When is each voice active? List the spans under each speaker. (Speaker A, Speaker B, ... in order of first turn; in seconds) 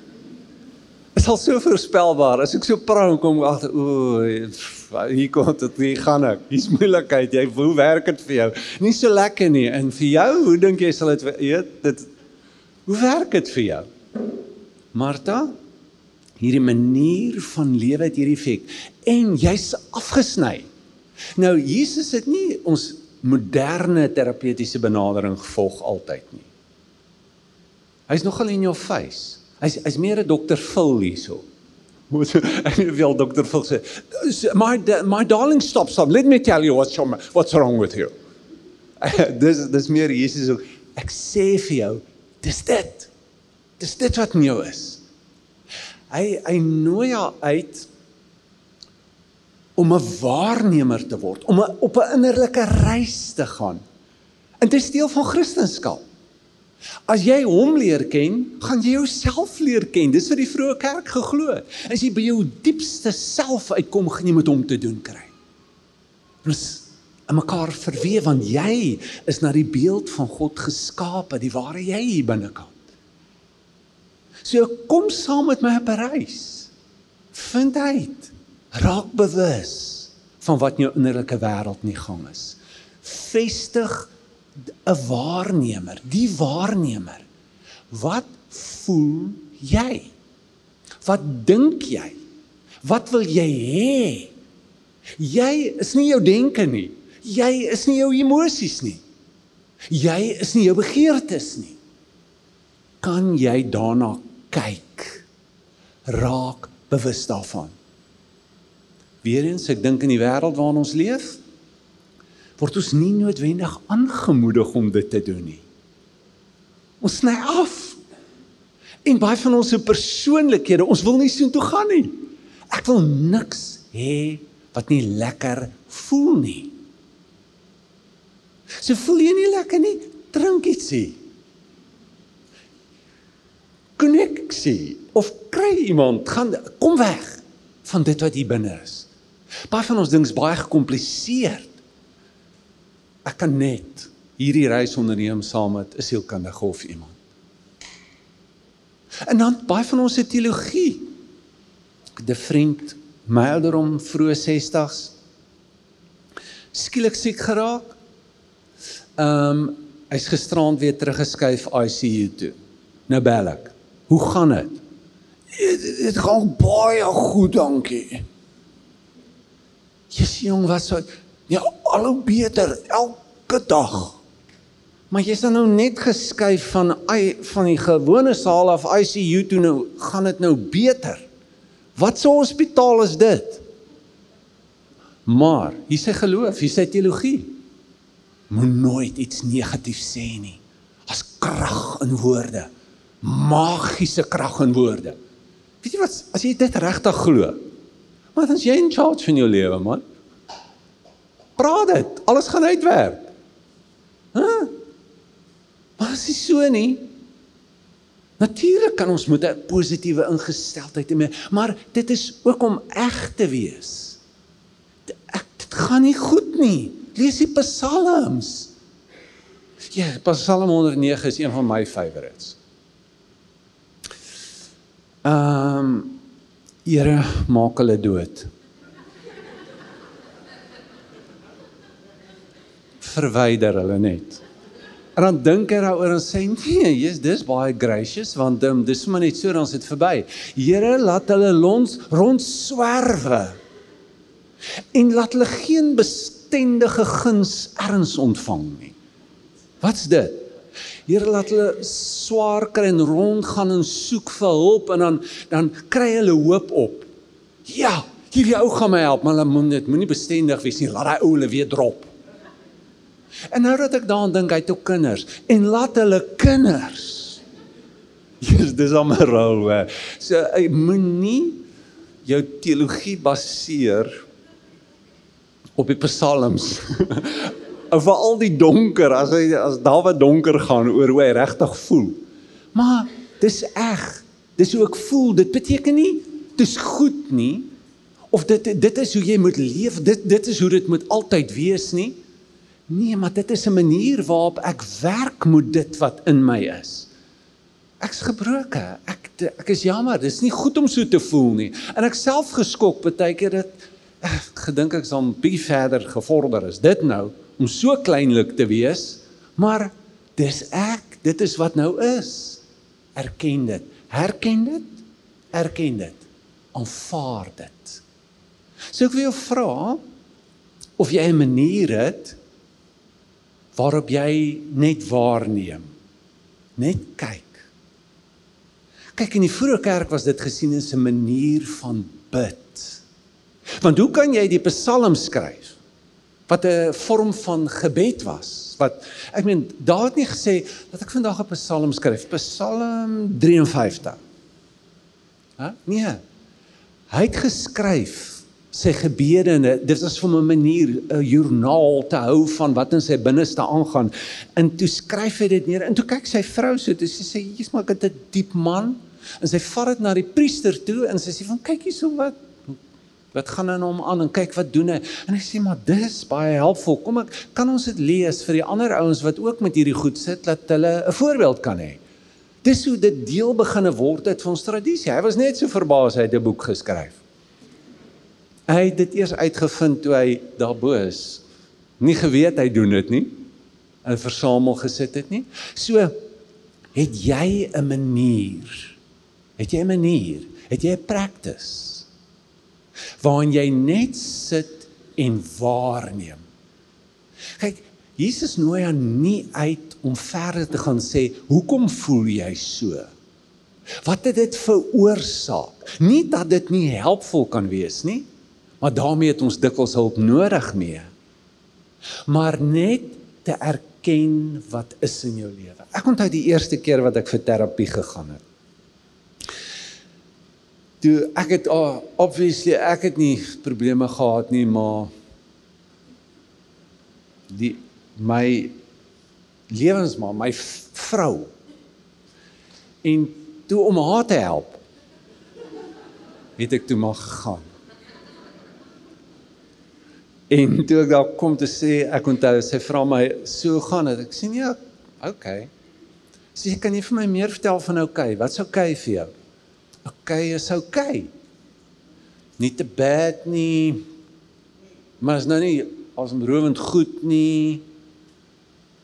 Speaker A: 1.1-12.1, 12.9-13.9, 14.9-15.6, 16.4-20.7, 21.4-26.5, 28.1-31.4, 32.1-38.1, 39.0-43.1, 43.8-45.0, 46.1-47.9, 49.8-53.8, 54.6-56.0, 57.1-65.3, 66.4-72.8, 74.4-76.7, 77.3-84.1, 84.8-87.2, 87.9-90.1, 91.0-92.2, 92.8-94.3, 95.2-99.0, 99.9-101.8, 103.0-105.2, 106.0-107.8, 109.2-111.4, 112.6-115.6, 117.0-118.0, 119.0-126.8, 128.8-131.2, 134.0-139.1, 139.7-141.8, 143.2-147.1, 149.2-151.1, 152.2-155.1, 156.7-158.0, 159.2-162.6, 163.1-164.8, 165.5-168.2, 170.1-174.2, 175.1-181.3, 181.9-183.6, 185.2-187.6, 188.5-192.7, 193.2-195.2, 195.8-197.6, 198.3-200.0, 201.6-203.3, 204.3-204.7, 206.0-207.1, 208.4-214.2, 215.1-218.7, 219.9-222.6, 225.2-226.2, 226.8-228.5, 233.0-234.4, 235.2-243.6, 244.9-248.9, 249.8-250.5, 251.1-257.1, 257.6-262.1, 263.5-267.4, 268.4-271.6, 272.2-274.2, 275.8-282.2, 282.7-287.7, 288.3-292.2, 292.9-297.1, 298.0-312.6, 313.1-318.0, 318.9-320.0, 321.0-322.4, 323.7-325.9, 326.8-327.7, 329.1-333.0, 333.8-335.8, 336.5-344.2, 345.6-346.2, 347.1-362.8, 363.3-372.0, 372.6-377.2, 378.7-381.4, 382.0-383.5, 384.0-386.2, 386.9-389.0, 389.6-392.1, 393.2-396.4, 397.6-403.1, 404.0-408.2, 408.8-411.1, 412.3-418.4, 421.0-425.1, 427.5-428.8, 429.7-431.5, 433.0-434.8, 436.6-437.6, 440.5-445.7, 446.6-449.3, 450.1-451.3, 452.6-454.1, 455.2-457.9